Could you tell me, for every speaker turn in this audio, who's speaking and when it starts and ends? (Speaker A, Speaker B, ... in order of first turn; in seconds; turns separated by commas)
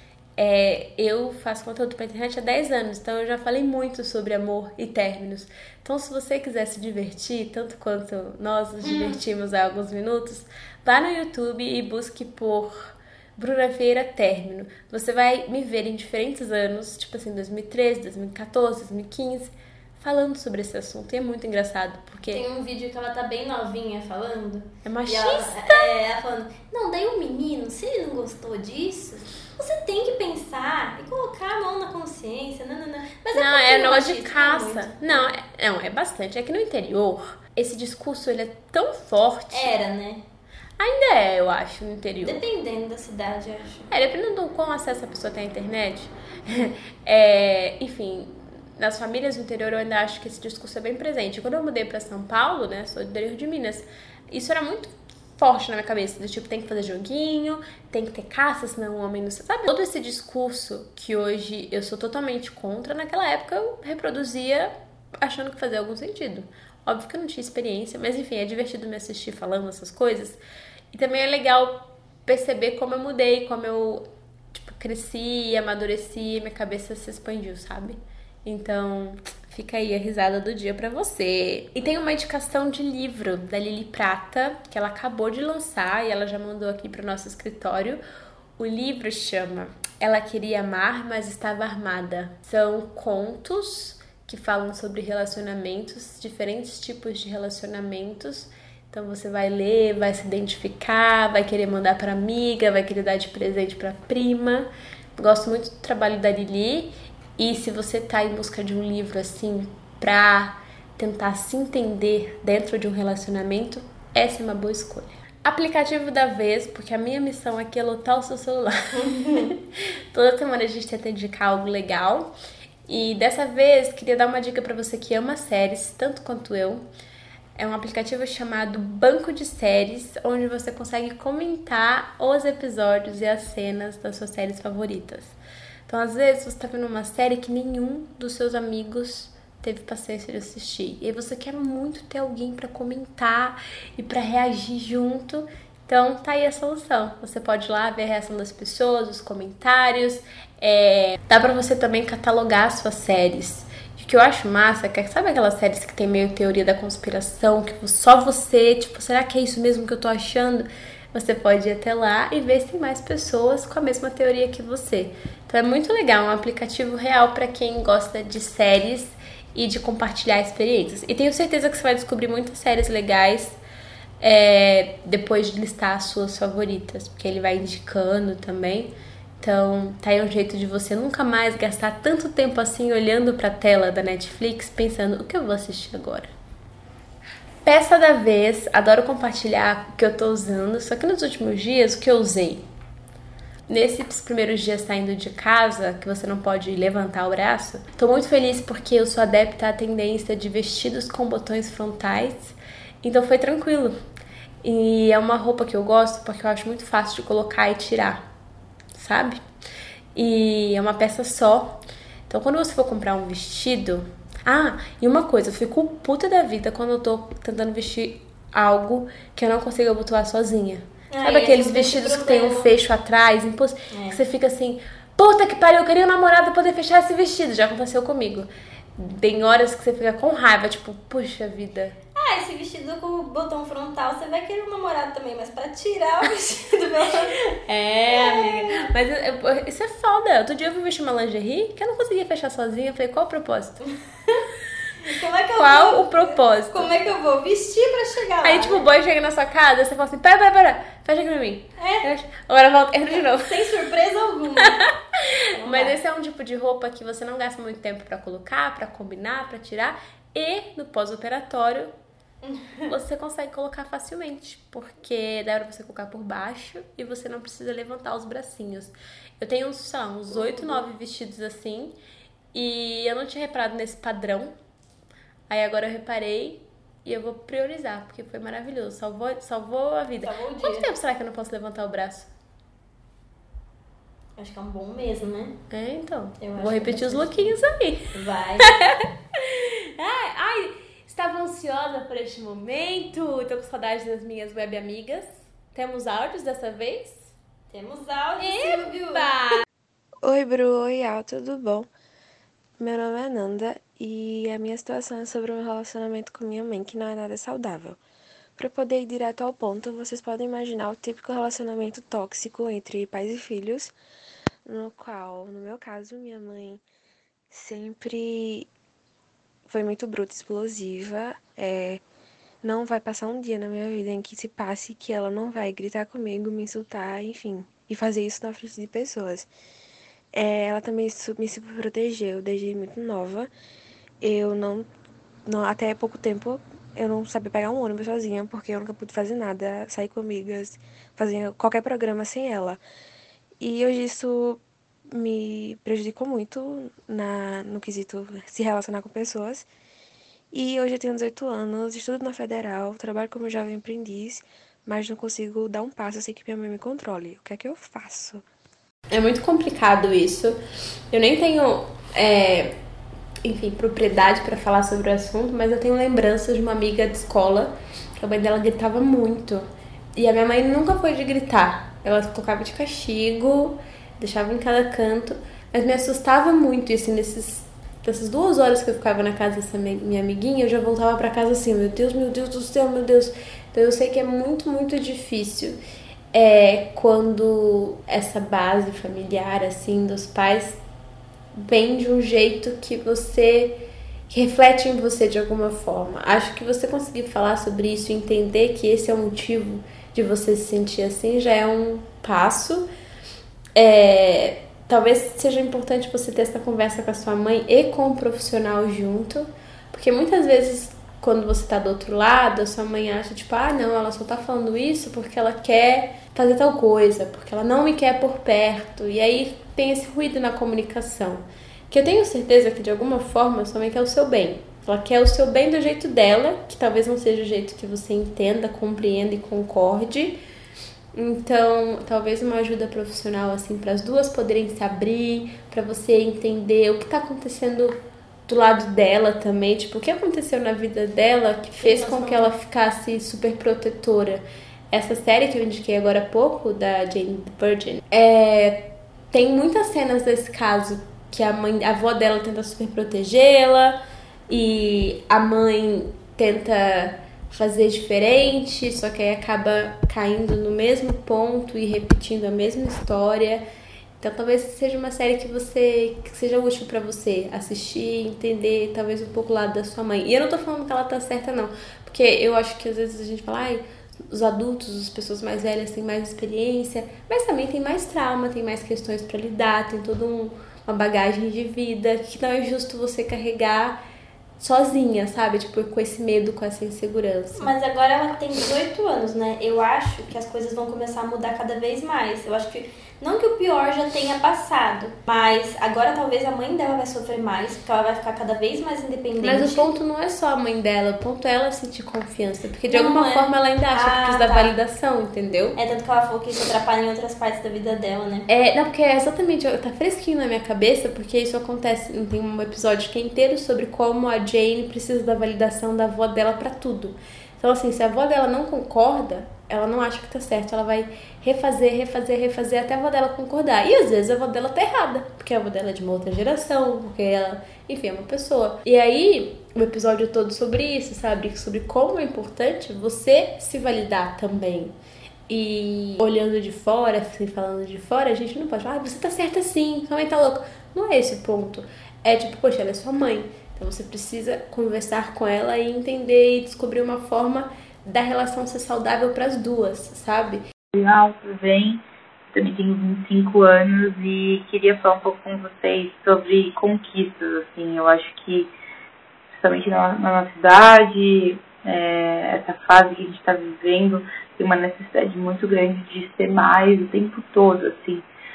Speaker A: 0.4-22.4, Speaker B: 8.8-9.2, Speaker B: 22.3-35.3, Speaker A: 24.8-25.9, Speaker A: 33.3-39.7, Speaker B: 39.5-40.2, Speaker A: 40.8-42.4, Speaker B: 42.2-43.9, Speaker A: 43.9-70.4, Speaker A: 70.9-88.0, Speaker A: 88.6-122.3, Speaker B: 119.0-119.5, Speaker A: 122.9-126.8, Speaker A: 127.5-135.3, Speaker A: 135.9-173.6, Speaker A: 174.2-186.3, Speaker A: 187.6-192.7, Speaker A: 193.7-203.9, Speaker A: 204.6-208.2, Speaker A: 208.9-209.4, Speaker A: 210.1-232.0, Speaker B: 221.1-222.7, Speaker B: 223.9-224.2, Speaker B: 232.1-237.5, Speaker A: 237.6-243.8, Speaker B: 238.1-238.9, Speaker B: 245.0-248.9, Speaker A: 245.5-246.9, Speaker A: 248.4-253.7, Speaker B: 251.8-252.0, Speaker B: 253.1-254.8, Speaker A: 254.6-261.9, Speaker B: 255.5-256.0, Speaker B: 262.4-262.9, Speaker A: 262.8-272.0, Speaker B: 270.3-270.8, Speaker A: 272.5-274.5, Speaker A: 275.5-282.3, Speaker B: 280.2-280.9, Speaker B: 284.4-285.6, Speaker A: 285.7-297.3, Speaker B: 286.4-287.6, Speaker B: 288.1-288.7, Speaker B: 297.7-299.3, Speaker A: 298.4-299.6, Speaker C: 300.2-301.9, Speaker C: 302.8-308.0, Speaker C: 308.6-313.9, Speaker C: 314.6-316.8, Speaker C: 317.5-318.7, Speaker C: 319.7-322.0, Speaker C: 322.6-329.5, Speaker C: 330.3-333.5, Speaker C: 334.2-334.9, Speaker C: 335.5-342.8, Speaker C: 343.6-349.7, Speaker C: 350.5-358.4, Speaker A: 359.1-360.6, Speaker A: 361.1-362.7, Speaker A: 363.4-385.8, Speaker A: 386.3-390.8, Speaker A: 391.5-393.8, Speaker A: 394.3-402.9, Speaker A: 403.8-430.4, Speaker A: 431.1-437.9, Speaker A: 438.5-454.0, Speaker B: 441.8-442.5, Speaker A: 454.5-463.6, Speaker A: 464.2-484.0, Speaker A: 484.6-487.7, Speaker B: 487.6-499.9, Speaker A: 499.4-505.8, Speaker B: 502.9-504.7, Speaker B: 505.8-508.4, Speaker A: 508.5-534.9, Speaker A: 535.5-550.6, Speaker D: 550.9-552.0, Speaker D: 552.5-558.7, Speaker D: 559.5-568.2